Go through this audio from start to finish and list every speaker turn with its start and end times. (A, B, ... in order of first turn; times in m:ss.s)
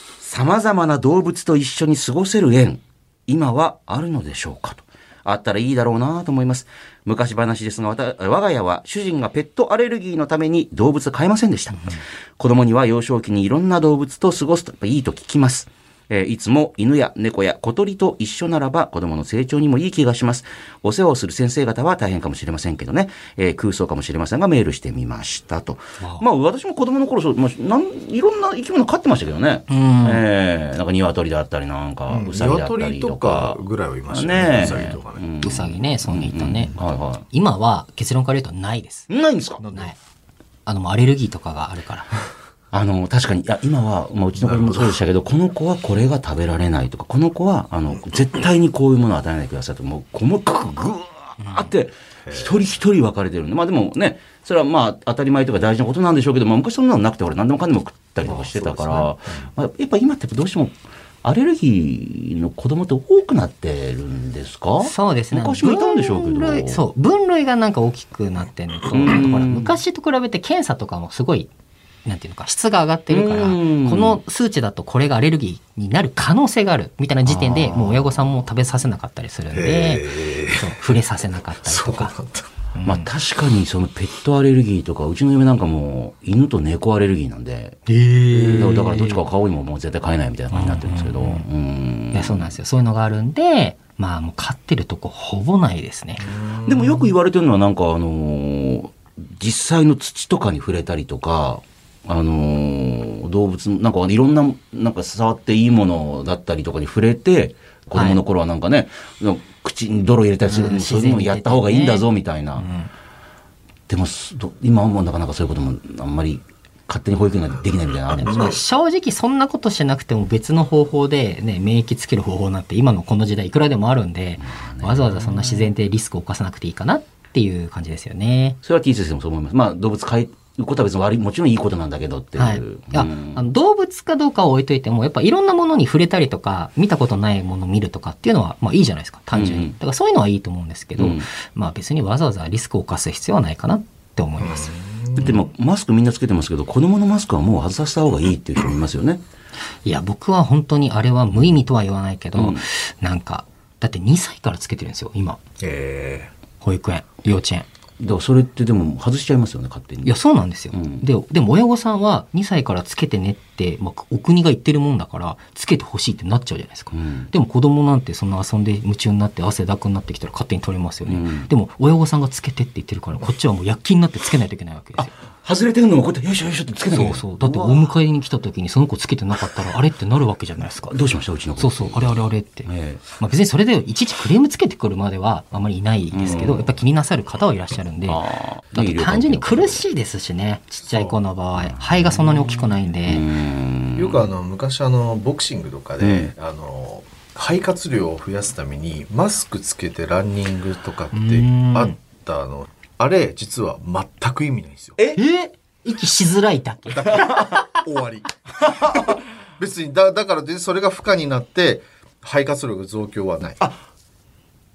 0:00.2-0:37.2 A
0:26.0-0:26.2 B
0:29.7-0:30.2 B
0:32.1-0:35.2 C
0:35.4-0:36.8 B
0:37.3-0:39.1 B
0:39.1-0:39.7 A
0:39.6-0:39.9 C
0:40.7-0:42.1 B
0:42.7-1:06.8 A
0:44.4-0:45.0 C
0:51.4-0:51.7 B
0:52.3-0:52.5 C
0:58.3-0:59.1 B
0:58.5-0:59.5 C
1:04.8-1:11.5 B
1:08.9-1:09.8 A
1:12.0-1:22.1 B
1:13.1-1:14.2 A
1:17.2-1:18.3 A
1:19.5-1:20.8 C
1:21.6-1:22.5 C
1:22.8-1:23.1 B
1:22.8-1:27.8 A
1:27.9-1:29.2 B
1:28.3-1:28.8 C
1:28.5-1:32.6 A
1:30.5-1:31.5 B
1:32.1-1:36.3 B
1:36.2-1:37.1 C
1:36.6-1:52.7 A
1:47.9-1:48.2 B
1:50.5-1:52.1 B
1:52.6-1:52.9 B
1:53.9-1:58.6 A
1:58.2-2:08.6 B
2:04.4-2:05.7 A
2:08.6-2:13.4 A
2:12.4-2:24.8 B
2:19.3-2:19.8 A
2:21.0-2:21.2 A
2:24.4-2:25.5 C
2:25.2-2:29.2 A
2:29.8-2:35.4 B
2:32.4-2:32.6 A
2:35.6-2:36.3 C
2:36.6-2:37.7 B
2:38.0-2:40.1 A
2:40.0-2:55.1 B
2:40.7-2:41.0 A
2:46.9-2:47.3 A
2:51.1-2:51.5 A
2:55.0-2:57.9 A
2:56.9-3:01.0 B
3:00.9-3:03.0 A
3:01.6-3:08.2 B
3:06.1-3:06.8 A
3:08.1-3:09.8 A
3:08.7-3:13.3 B
3:10.9-3:11.2 C
3:11.6-3:14.3 A
3:14.0-3:25.0 C
3:16.0-3:16.3 A
3:21.1-3:22.0 B
3:25.2-3:27.6 B
3:26.9-3:33.6 C
3:27.0-3:27.6 A
3:28.6-3:29.1 A